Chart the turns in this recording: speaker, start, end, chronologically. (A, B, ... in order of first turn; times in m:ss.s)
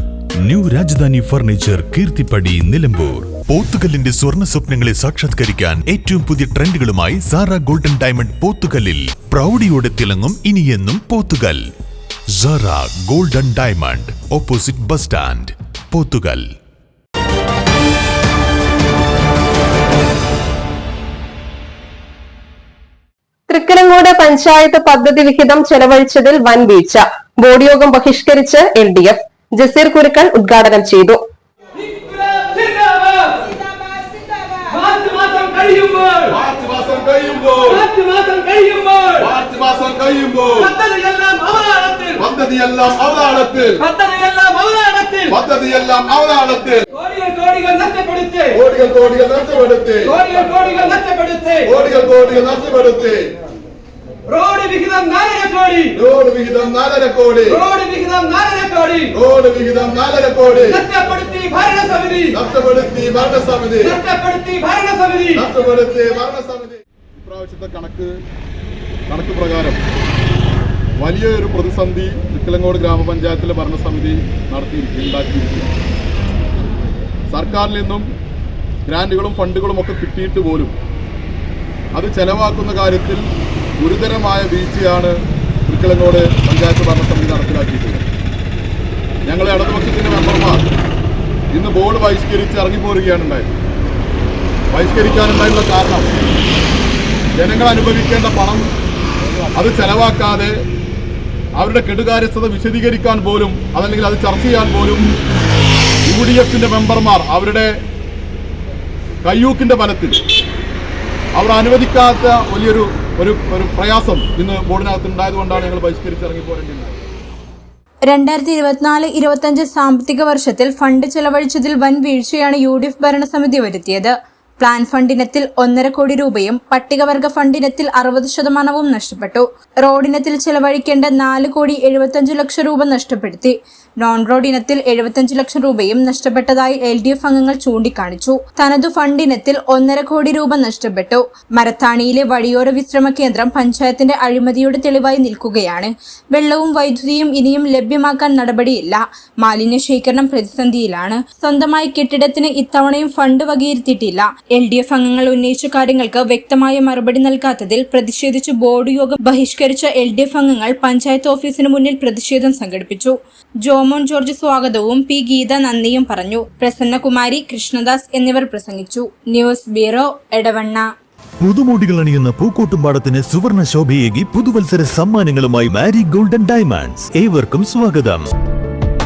0:00.4-0:11.6 A
0:12.4-0:16.4 A
0:23.5-0:31.2 B
0:32.1-0:33.5 C
0:34.6-0:36.2 C
0:36.2-0:37.9 D
0:37.9-0:39.1 C
0:39.1-0:40.8 D
0:40.8-0:42.1 C
0:42.2-0:43.8 D
0:44.0-0:45.2 C
0:45.3-0:46.9 D
0:47.1-0:48.4 C
0:48.5-0:50.2 D
0:50.2-0:51.6 C
0:51.6-0:53.3 D
0:54.3-0:55.9 C
0:55.9-0:57.7 D
0:57.8-0:59.0 C
0:59.1-1:00.9 D
1:01.0-1:02.2 C
1:02.3-1:04.0 D
1:04.1-1:05.3 C
1:05.4-1:08.1 D
1:09.1-1:09.8 D
1:11.0-1:15.7 D
1:17.3-1:18.0 D
1:18.9-1:20.7 D
1:21.9-1:23.2 D
1:23.8-1:25.2 D
1:25.7-1:28.1 D
1:29.2-1:30.6 D
1:31.5-1:33.5 D
1:34.7-1:36.1 D
1:37.4-1:38.7 D
1:39.6-1:40.5 D
1:41.6-1:45.1 D
1:46.1-1:47.7 D
1:49.2-1:50.2 D
1:51.3-1:57.0 D
1:58.1-2:50.9 E
2:51.4-2:58.3 A